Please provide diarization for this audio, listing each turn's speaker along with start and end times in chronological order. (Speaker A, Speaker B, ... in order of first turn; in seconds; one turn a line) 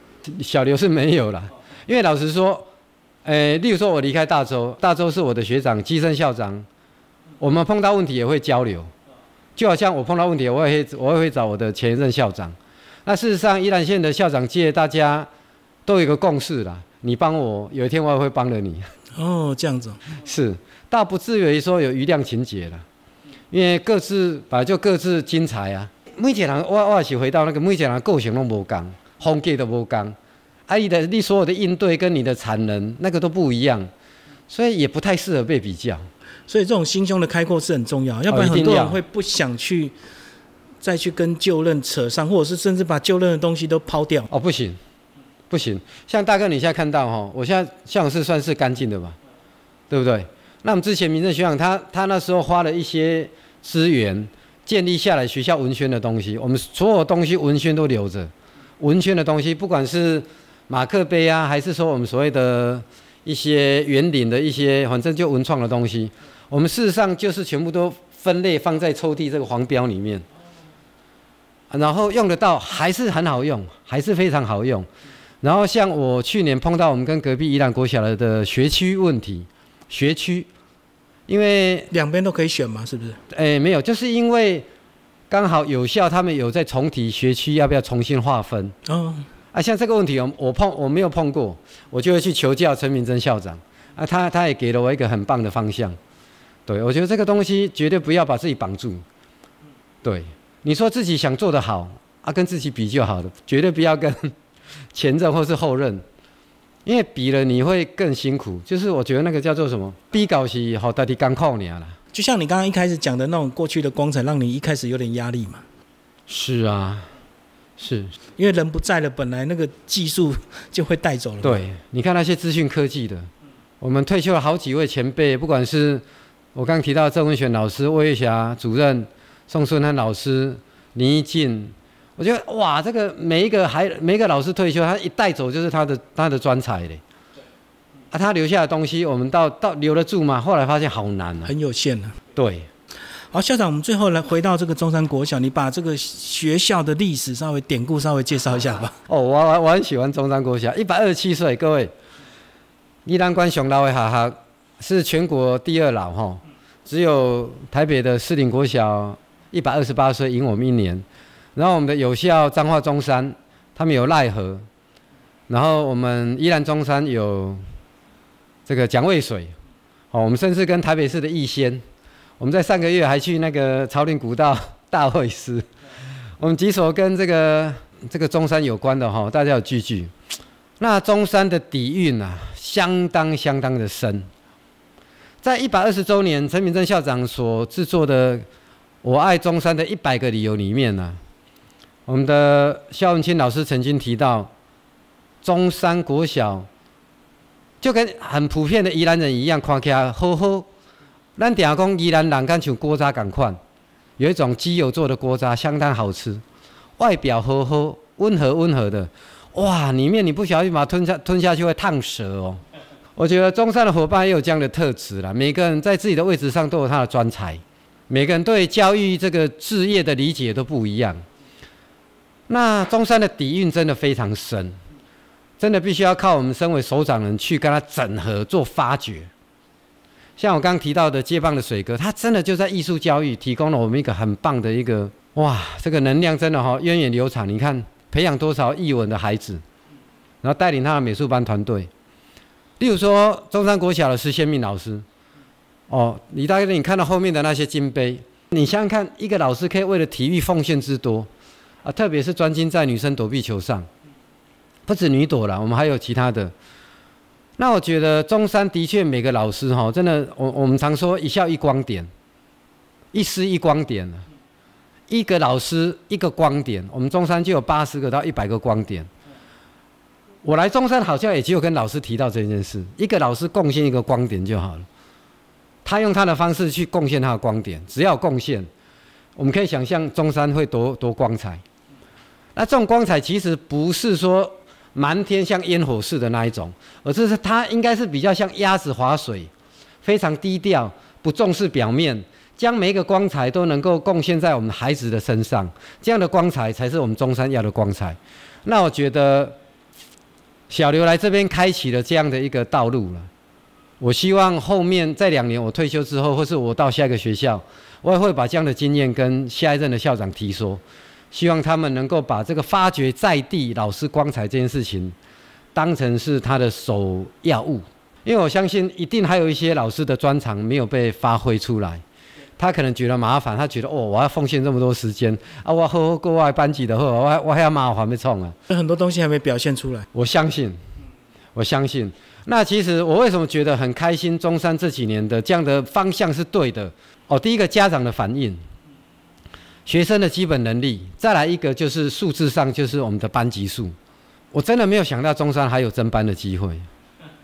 Speaker A: 0.3-2.7
Speaker A: 3.2-6.7
Speaker A: 7.4-8.9
Speaker A: 9.6-15.3
Speaker A: 15.8-18.9
Speaker B: 19.1-20.0
Speaker A: 20.1-22.8
Speaker A: 23.5-30.1
Speaker A: 30.7-33.9
Speaker A: 34.5-36.1
Speaker B: 36.5-39.9
Speaker A: 38.3-39.0
Speaker B: 40.8-44.3
Speaker A: 44.3-44.8
Speaker A: 45.5-49.2
Speaker A: 49.9-70.2
Speaker A: 71.7-74.9
Speaker A: 75.4-80.5
Speaker A: 81.3-81.9
Speaker B: 81.9-83.2
Speaker A: 83.3-84.7
Speaker A: 85.3-88.7
Speaker B: 88.8-89.3
Speaker A: 89.5-96.0
Speaker A: 96.7-99.0
Speaker A: 100.0-104.3
Speaker A: 104.9-106.0
Speaker A: 106.8-112.0
Speaker B: 112.1-115.6
Speaker A: 116.3-117.1
Speaker A: 117.8-118.1
Speaker B: 118.4-121.6
Speaker A: 121.4-123.3
Speaker A: 123.8-126.0
Speaker A: 126.5-137.0
Speaker A: 138.1-141.5
Speaker B: 141.4-142.2
Speaker A: 142.3-142.7
Speaker B: 143.3-149.0
Speaker A: 149.1-151.9
Speaker A: 153.0-164.7
Speaker A: 165.5-167.6
Speaker A: 168.7-169.5
Speaker A: 170.1-171.8
Speaker A: 172.4-175.7
Speaker A: 176.4-180.1
Speaker A: 180.8-184.3
Speaker A: 185.4-188.4
Speaker A: 189.0-191.2
Speaker A: 192.1-194.5
Speaker A: 195.4-196.7
Speaker A: 197.8-200.7
Speaker A: 201.4-203.6
Speaker A: 204.2-206.4
Speaker A: 207.0-212.6
Speaker A: 213.2-221.2
Speaker A: 222.5-224.8
Speaker A: 225.6-229.3
Speaker A: 230.4-239.6
Speaker A: 240.4-241.9
Speaker A: 242.8-245.0
Speaker A: 245.9-251.3
Speaker A: 251.8-253.9
Speaker A: 254.8-256.5
Speaker A: 257.6-262.1
Speaker A: 263.1-264.2
Speaker A: 265.1-269.1
Speaker A: 270.4-274.9
Speaker A: 275.8-278.7
Speaker A: 279.4-281.6
Speaker A: 282.6-289.5
Speaker A: 290.0-299.6
Speaker A: 300.7-303.3
Speaker A: 304.0-315.1
Speaker A: 315.7-322.0
Speaker A: 322.6-328.6
Speaker B: 328.7-330.1
Speaker A: 330.1-330.8
Speaker A: 331.5-338.6
Speaker A: 339.9-343.9
Speaker A: 344.5-346.9